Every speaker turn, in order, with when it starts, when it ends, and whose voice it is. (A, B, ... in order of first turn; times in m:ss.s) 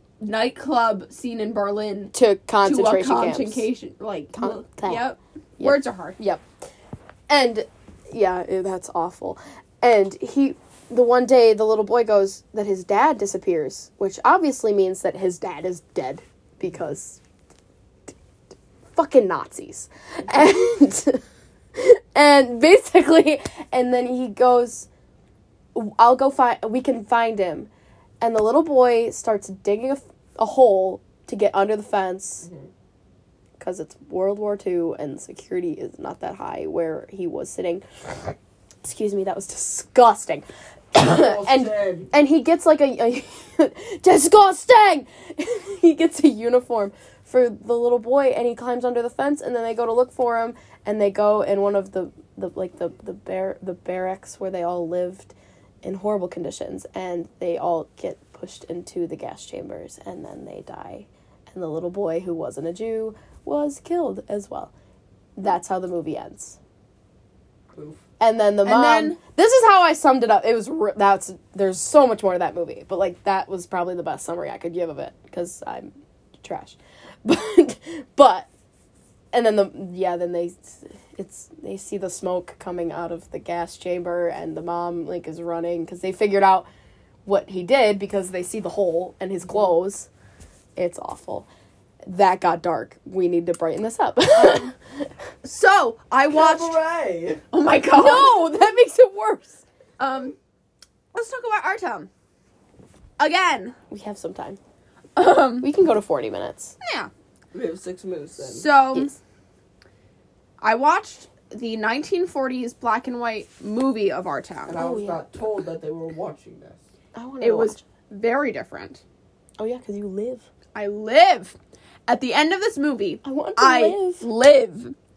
0:00.2-0:06.2 A
0:02.1-0:03.7 B
0:04.3-0:05.1 B
0:05.6-0:06.4 B
0:07.3-0:17.2 B
0:18.9-0:21.2 B
0:21.8-0:24.9 B
0:25.7-0:27.7 B
0:28.2-0:32.5 B
0:33.6-0:37.8 B
0:38.8-1:04.7 B
0:41.0-0:42.1 C
1:05.4-1:06.6 B
1:07.7-1:08.0 C
1:08.2-1:18.5 B
1:08.6-1:09.2 A
1:19.3-1:26.7 B
1:27.2-1:30.1 B
1:30.8-1:31.5 B
1:32.0-1:35.1 B
1:35.4-1:36.8 A
1:36.3-1:37.4 C
1:37.5-1:38.4 A
1:38.0-1:39.6 B
1:40.0-1:40.4 A
1:41.1-1:42.1 A
1:43.2-1:43.8 A
1:43.9-1:44.6 B
1:45.2-1:45.7 A
1:45.6-1:46.8 B
1:46.8-1:47.1 A
1:47.5-1:48.7 C
1:48.4-1:49.2 A
1:50.6-1:54.8 A
1:54.7-1:56.9 C
1:54.8-1:55.2 B
1:57.2-1:57.8 B
1:57.4-1:59.0 A
1:59.6-2:00.4 B
2:00.8-2:05.0 A
2:03.2-2:04.2 B